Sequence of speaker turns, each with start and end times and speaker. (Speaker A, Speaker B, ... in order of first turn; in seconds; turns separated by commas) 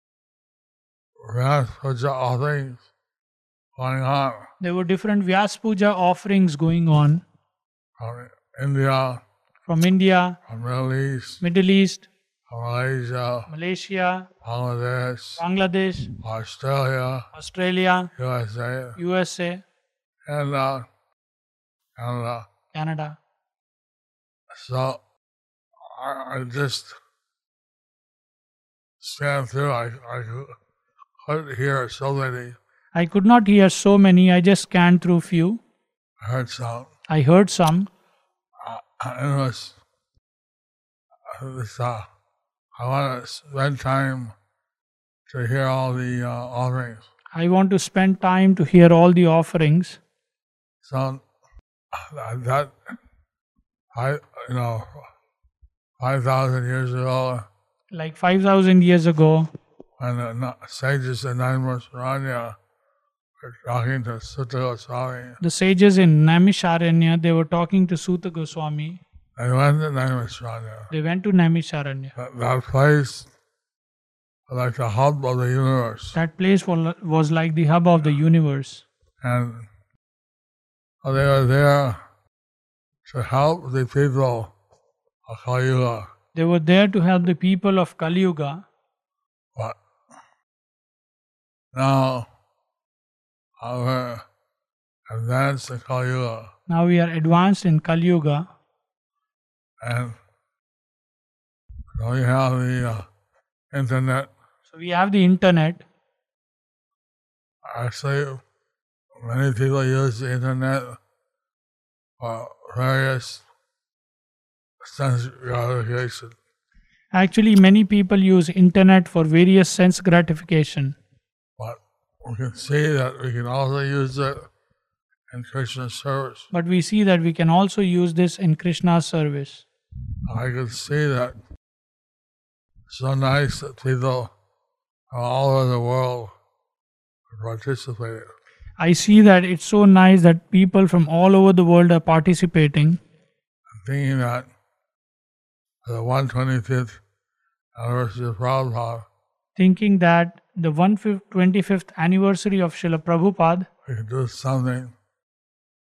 Speaker A: 1.2-2.9, Speaker A: 3.8-4.5, Speaker B: 4.6-7.2, Speaker A: 8.0-9.2, Speaker B: 9.7-10.4, Speaker A: 10.5-11.4, Speaker B: 11.4-12.1, Speaker A: 12.5-13.5, Speaker B: 13.5-14.3, Speaker A: 14.4-15.4, Speaker B: 15.4-16.1, Speaker A: 16.2-17.3, Speaker B: 17.3-18.1, Speaker A: 18.1-19.0, Speaker B: 19.0-19.6, Speaker A: 20.2-20.9, Speaker A: 22.0-22.4, Speaker B: 22.7-23.2, Speaker A: 24.5-25.0, Speaker A: 25.8-26.9, Speaker A: 29.0-30.6, Speaker A: 31.2-32.6, Speaker B: 32.9-35.6, Speaker A: 36.2-36.9, Speaker B: 37.1-37.9, Speaker A: 38.6-39.8, Speaker A: 41.3-42.0, Speaker A: 42.8-44.3, Speaker A: 45.3-47.0, Speaker B: 47.3-50.0, Speaker A: 50.8-51.2, Speaker A: 51.9-52.9, Speaker A: 53.9-55.1, Speaker A: 56.0-57.5, Speaker B: 57.9-59.5, Speaker A: 60.0-62.6, Speaker A: 63.4-65.4, Speaker B: 65.4-69.0, Speaker A: 69.3-70.9, Speaker B: 70.9-72.1, Speaker A: 72.2-73.3, Speaker A: 74.5-76.2, Speaker B: 76.1-78.8, Speaker A: 79.2-79.7, Speaker A: 81.0-82.0, Speaker A: 83.0-84.5, Speaker A: 85.2-86.1, Speaker B: 86.3-88.6, Speaker A: 91.7-92.3, Speaker A: 93.6-94.2, Speaker A: 95.1-96.5, Speaker B: 96.7-98.5, Speaker A: 99.8-100.2, Speaker A: 101.9-103.1, Speaker A: 103.7-104.3, Speaker B: 104.7-105.8, Speaker A: 107.6-108.4, Speaker A: 109.2-111.0, Speaker A: 112.2-113.4, Speaker A: 114.8-116.3, Speaker B: 117.1-121.0, Speaker A: 121.6-124.5, Speaker A: 125.3-126.5, Speaker B: 126.5-129.6, Speaker A: 130.2-131.3, Speaker A: 132.9-134.3, Speaker A: 135.1-136.3, Speaker A: 137.3-138.3, Speaker B: 138.8-143.0, Speaker A: 143.7-144.5, Speaker A: 145.8-147.0, Speaker A: 147.7-149.1, Speaker B: 149.6-153.7, Speaker A: 153.8-154.9